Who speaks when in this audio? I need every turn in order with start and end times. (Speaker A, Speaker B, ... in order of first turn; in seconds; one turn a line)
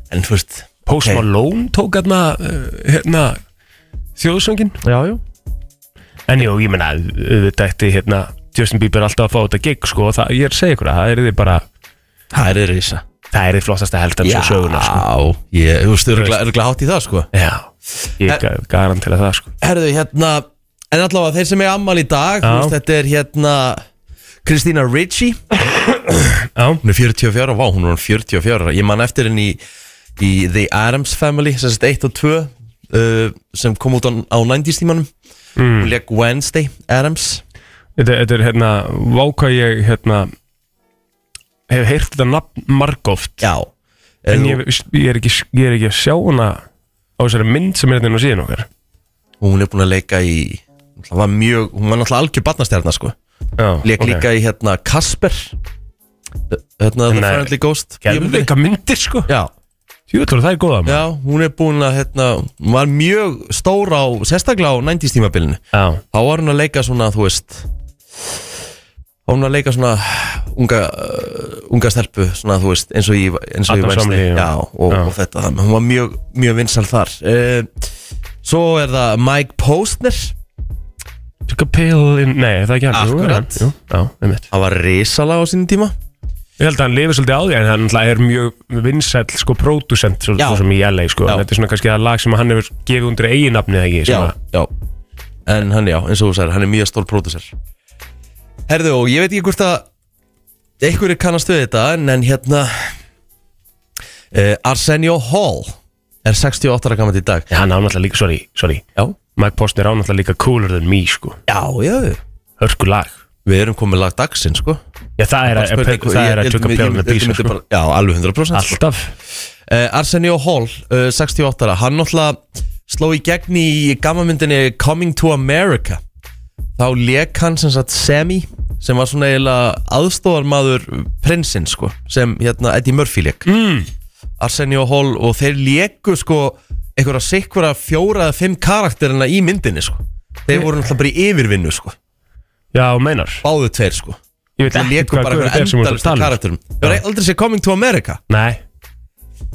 Speaker A: 0.1-1.2
Speaker B: 0.9-3.4
Speaker B: 4.2-4.8
Speaker A: 4.8-5.2
Speaker B: 6.3-11.7
Speaker A: 12.3-13.0
Speaker B: 13.3-15.1
Speaker A: 14.2-17.3
Speaker B: 16.1-16.4
Speaker B: 17.3-19.5
Speaker A: 19.6-23.8
Speaker B: 22.4-22.8
Speaker A: 24.4-25.4
Speaker B: 26.6-26.8
Speaker A: 26.8-29.6
Speaker A: 30.2-35.1
Speaker B: 35.6-36.0
Speaker A: 35.8-37.4
Speaker B: 38.0-40.3
Speaker B: 41.7-43.5
Speaker A: 43.4-43.7
Speaker A: 44.2-44.6
Speaker B: 44.3-46.6
Speaker B: 47.2-48.7
Speaker A: 49.4-53.1
Speaker B: 53.6-54.2
Speaker A: 53.8-55.6
Speaker A: 56.5-58.5
Speaker B: 57.1-59.3
Speaker B: 60.1-61.1
Speaker A: 60.9-67.7
Speaker B: 65.7-66.0
Speaker A: 69.3-77.7
Speaker B: 73.7-75.1
Speaker A: 78.4-80.3
Speaker B: 81.5-84.5
Speaker A: 82.9-83.6
Speaker A: 84.5-86.0
Speaker B: 86.6-94.3
Speaker A: 90.4-90.7
Speaker A: 94.1-94.7
Speaker A: 95.5-97.5
Speaker A: 98.7-99.9
Speaker A: 100.8-102.9
Speaker A: 104.3-107.5
Speaker B: 107.5-108.8
Speaker B: 109.4-111.4
Speaker A: 111.5-112.2
Speaker B: 112.6-113.2
Speaker A: 113.5-114.8
Speaker B: 115.2-117.5
Speaker A: 115.5-118.8
Speaker B: 118.5-119.1
Speaker A: 119.7-126.0
Speaker A: 126.8-133.5
Speaker B: 133.5-133.9
Speaker A: 134.4-142.0
Speaker B: 142.7-143.4
Speaker A: 143.4-148.2
Speaker B: 144.6-147.0
Speaker B: 148.3-148.6